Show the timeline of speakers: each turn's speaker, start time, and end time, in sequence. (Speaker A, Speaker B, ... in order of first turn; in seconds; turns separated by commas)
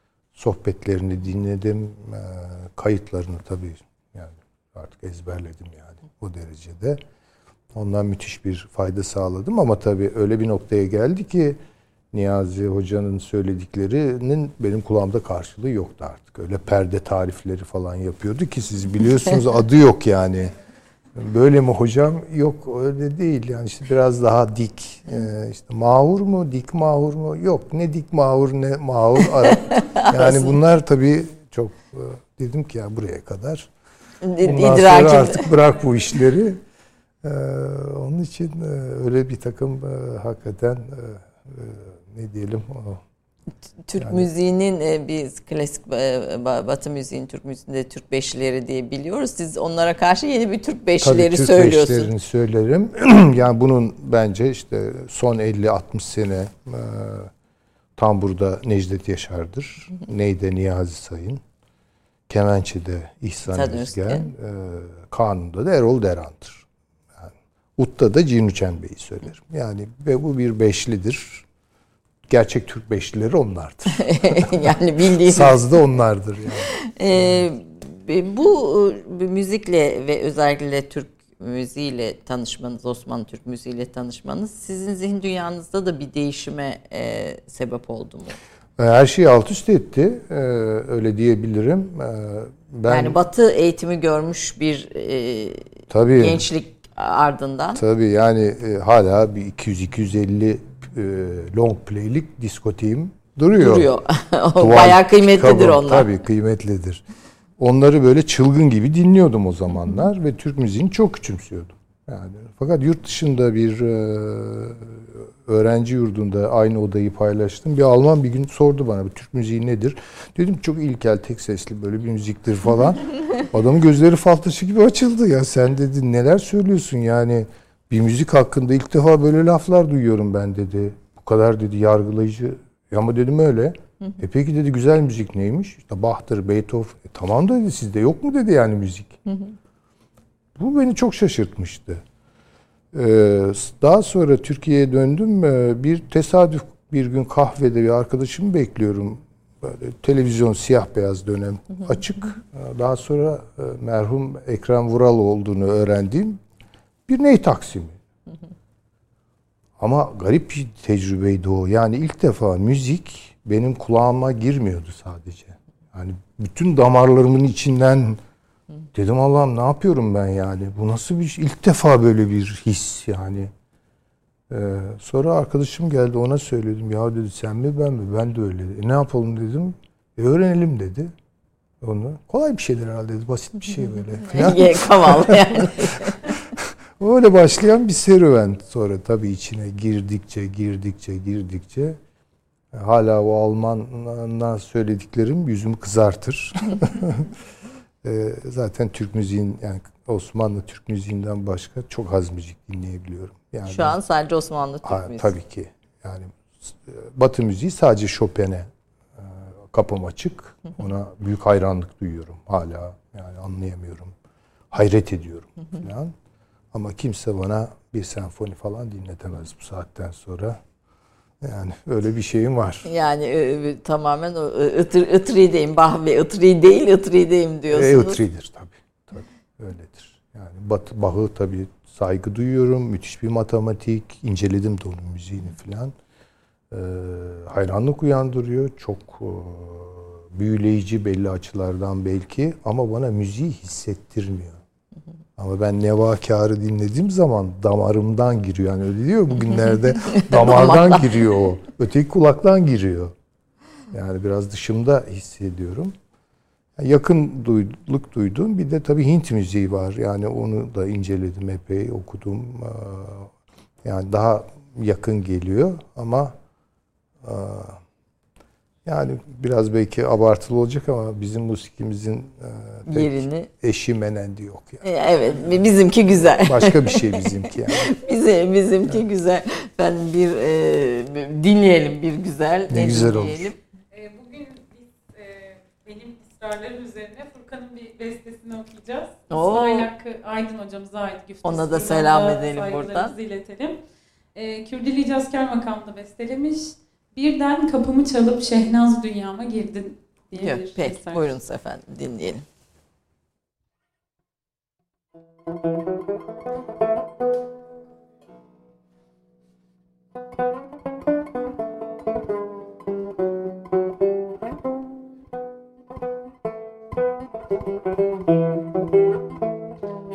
Speaker A: 0.3-7.0, Speaker A: 7.7-11.6, Speaker A: 12.1-20.5, Speaker A: 21.1-33.7, Speaker B: 29.6-30.6, Speaker B: 34.2-35.5, Speaker A: 34.4-36.6, Speaker A: 37.2-43.0, Speaker B: 43.9-52.1, Speaker A: 44.0-44.3, Speaker A: 51.0-57.3, Speaker A: 58.0-61.4, Speaker A: 62.3-66.7, Speaker B: 63.5-64.3, Speaker A: 67.2-71.4, Speaker A: 72.3-74.7, Speaker B: 73.9-75.6, Speaker A: 75.2-76.7, Speaker B: 76.7-88.4, Speaker A: 88.8-93.2, Speaker B: 92.9-97.8, Speaker A: 95.9-96.4, Speaker A: 97.7-103.9, Speaker B: 103.5-106.1, Speaker A: 104.6-107.0, Speaker A: 107.6-139.2, Speaker A: 140.6-142.0, Speaker A: 142.9-156.4, Speaker A: 157.1-158.0, Speaker A: 159.8-168.2, Speaker A: 168.9-173.5, Speaker A: 174.5-181.1, Speaker A: 181.8-192.0, Speaker B: 184.3-186.2, Speaker A: 192.7-197.3, Speaker A: 198.0-203.9, Speaker B: 203.7-205.3, Speaker A: 204.8-214.1, Speaker A: 214.7-216.1, Speaker A: 216.7-220.6, Speaker A: 221.4-222.8, Speaker B: 222.8-228.2, Speaker A: 227.7-235.9, Speaker A: 236.7-244.6, Speaker A: 245.4-253.1, Speaker B: 250.2-251.0, Speaker A: 253.9-255.9, Speaker A: 256.8-263.3, Speaker A: 263.8-266.3, Speaker A: 267.2-267.8, Speaker A: 268.8-274.8, Speaker B: 272.9-273.5, Speaker B: 274.8-283.6, Speaker A: 276.2-277.9, Speaker A: 282.7-283.4, Speaker C: 283.9-293.8, Speaker B: 289.3-289.9, Speaker B: 291.4-293.1, Speaker C: 294.3-301.2, Speaker B: 300.3-302.4